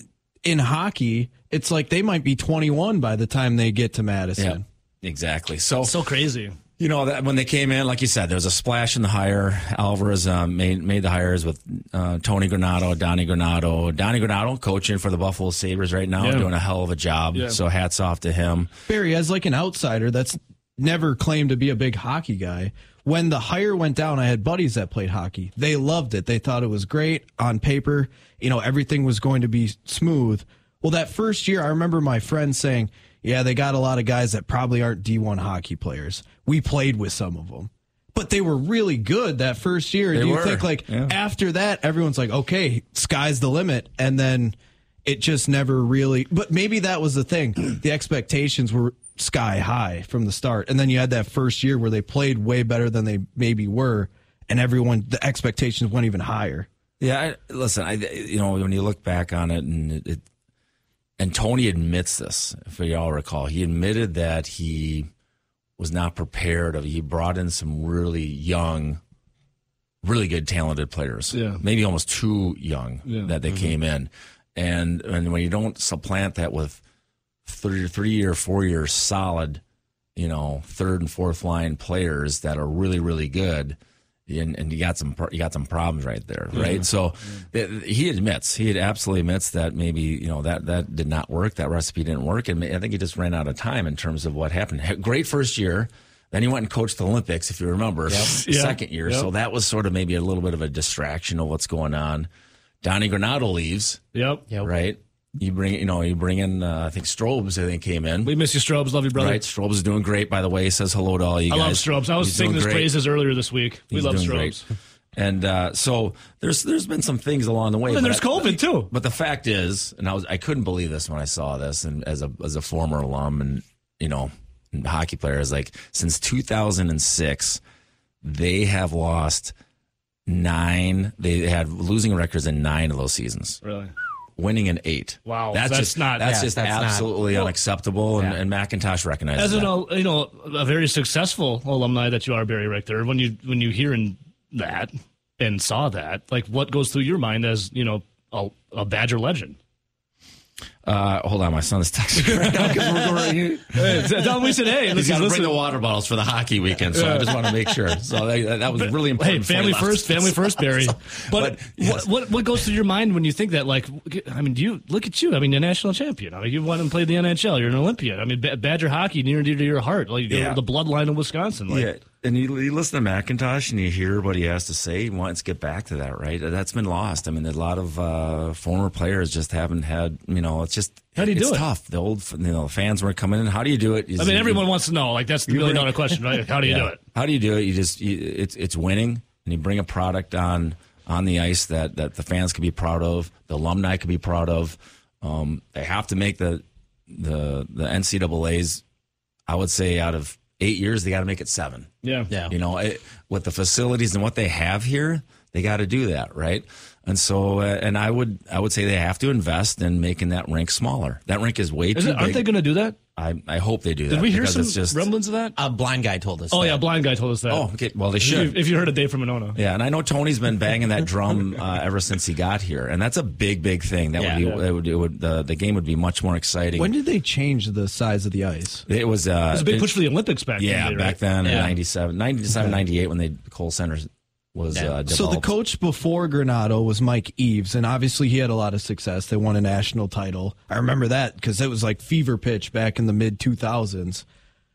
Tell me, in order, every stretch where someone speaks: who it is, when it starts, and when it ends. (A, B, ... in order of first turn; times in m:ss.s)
0:00.4-0:04.6 A
0:04.4-0:05.9 B
0:05.8-0:06.6 C
0:06.8-0:18.7 B
0:16.2-0:16.5 C
0:18.9-0:56.7 A
0:40.1-0:41.1 B
0:57.0-1:00.2 B
1:01.2-1:05.1 B
1:05.8-1:09.0 B
1:10.0-1:16.8 B
1:11.3-1:11.6 C
1:13.0-1:13.3 C
1:17.5-1:19.6 B
1:20.2-1:23.8 B
1:24.3-1:42.3 B
1:38.2-1:39.3 C
1:42.8-1:44.0 B
1:44.1-1:44.5 C
1:44.6-1:48.3 B
1:48.2-1:49.4 C
1:49.1-1:53.0 B
1:51.5-1:54.6 C
1:53.9-1:54.6 B
1:55.1-2:07.6 B
1:57.9-1:58.9 C
2:08.2-2:09.5 B
2:10.3-2:13.6 B
2:13.6-2:13.9 C
2:14.4-2:19.8 B
2:15.2-2:16.2 C
2:16.2-2:17.4 D
2:19.4-2:29.6 C
2:30.8-2:42.1 B
2:32.2-2:33.0 C
2:33.7-2:35.6 C
2:36.9-2:37.5 C
2:38.8-2:51.9 C
2:50.3-2:50.6 B
2:51.7-3:04.7 B
3:01.2-3:01.6 C
3:04.2-3:07.0 C
3:05.5-3:06.0 B
3:06.6-3:18.8 B
3:19.5-3:21.9 B
3:22.0-3:22.3 C
3:22.5-3:32.5 B
3:31.9-3:33.0 C
3:33.2-3:35.1 B
3:34.1-3:35.6 C
3:35.6-3:36.8 D
3:36.5-3:37.7 C
3:37.5-3:38.6 B
3:38.2-3:39.6 C
3:39.6-3:46.9 B
3:44.4-3:44.6 C
3:46.8-3:48.8 A
3:48.9-3:49.9 B
3:49.5-3:51.2 C
3:50.6-3:55.5 B
3:51.4-3:51.8 D
3:55.0-4:04.2 A